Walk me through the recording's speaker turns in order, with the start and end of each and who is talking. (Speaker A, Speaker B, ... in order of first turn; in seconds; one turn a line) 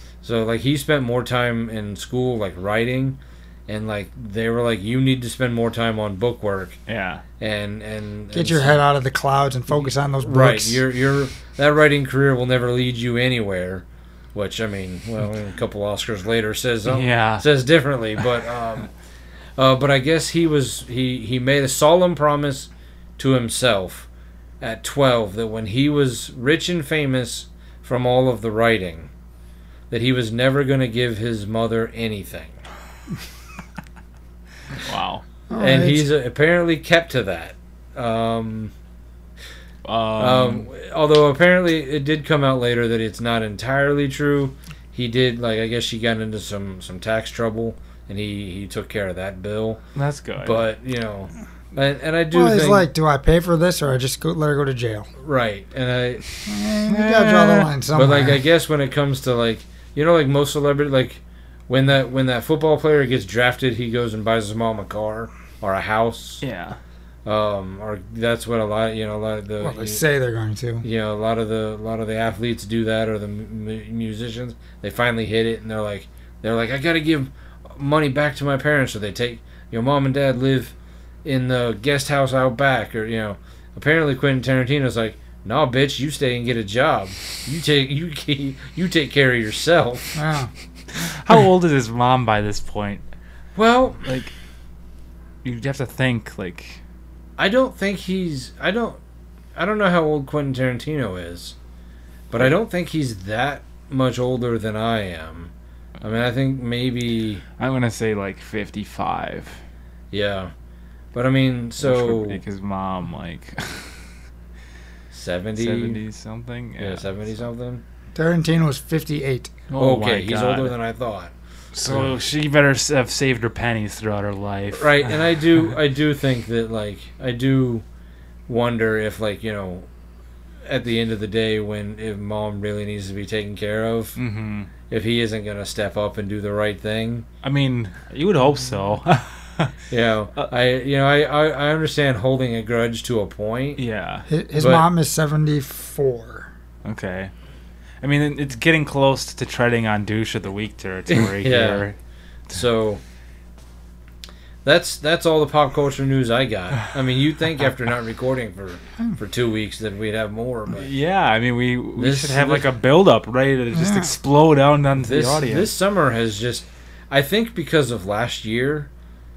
Speaker A: 0.2-6.8
Speaker B: 6.9-7.2
Speaker A: 7.4-8.8
Speaker C: 8.3-10.8
Speaker A: 10.2-18.9
Speaker B: 16.9-17.5
Speaker A: 19.6-24.1
Speaker A: 24.6-29.1
Speaker A: 29.9-32.5
Speaker B: 34.8-35.2
Speaker C: 35.5-36.1
Speaker A: 35.6-38.7
Speaker B: 39.9-40.7
Speaker A: 40.2-49.8
Speaker B: 50.0-50.6
Speaker A: 50.4-52.9
Speaker C: 52.3-55.1
Speaker A: 55.2-56.2
Speaker C: 56.5-58.4
Speaker B: 56.9-57.7
Speaker A: 58.0-66.4
Speaker B: 66.4-66.8
Speaker A: 67.2-70.0
Speaker C: 69.6-70.8
Speaker A: 70.8-90.2
Speaker C: 90.2-90.5
Speaker B: 91.0-93.0
Speaker A: 93.5-94.1
Speaker B: 94.0-94.3
Speaker B: 95.4-96.8
Speaker A: 97.4-99.0
Speaker A: 99.5-101.6
Speaker A: 102.3-107.4
Speaker B: 107.6-109.6
Speaker A: 110.1-110.5
Speaker A: 111.1-112.4
Speaker B: 111.8-114.1
Speaker A: 115.1-116.0
Speaker B: 115.6-117.1
Speaker A: 116.8-117.8
Speaker C: 118.2-119.5
Speaker B: 119.7-120.8
Speaker A: 119.8-121.3
Speaker B: 121.7-125.2
Speaker A: 124.7-127.8
Speaker A: 128.5-129.9
Speaker A: 130.7-134.2
Speaker B: 134.2-134.7
Speaker A: 134.9-137.3
Speaker B: 137.4-139.8
Speaker A: 139.9-143.8
Speaker B: 143.8-144.3
Speaker C: 144.3-146.5
Speaker A: 144.6-144.9
Speaker B: 146.8-147.3
Speaker B: 148.0-152.0
Speaker A: 151.1-151.9
Speaker A: 152.5-153.0
Speaker A: 154.7-160.9
Speaker B: 160.7-165.7
Speaker A: 162.0-162.7
Speaker C: 163.7-164.1
Speaker A: 165.0-168.9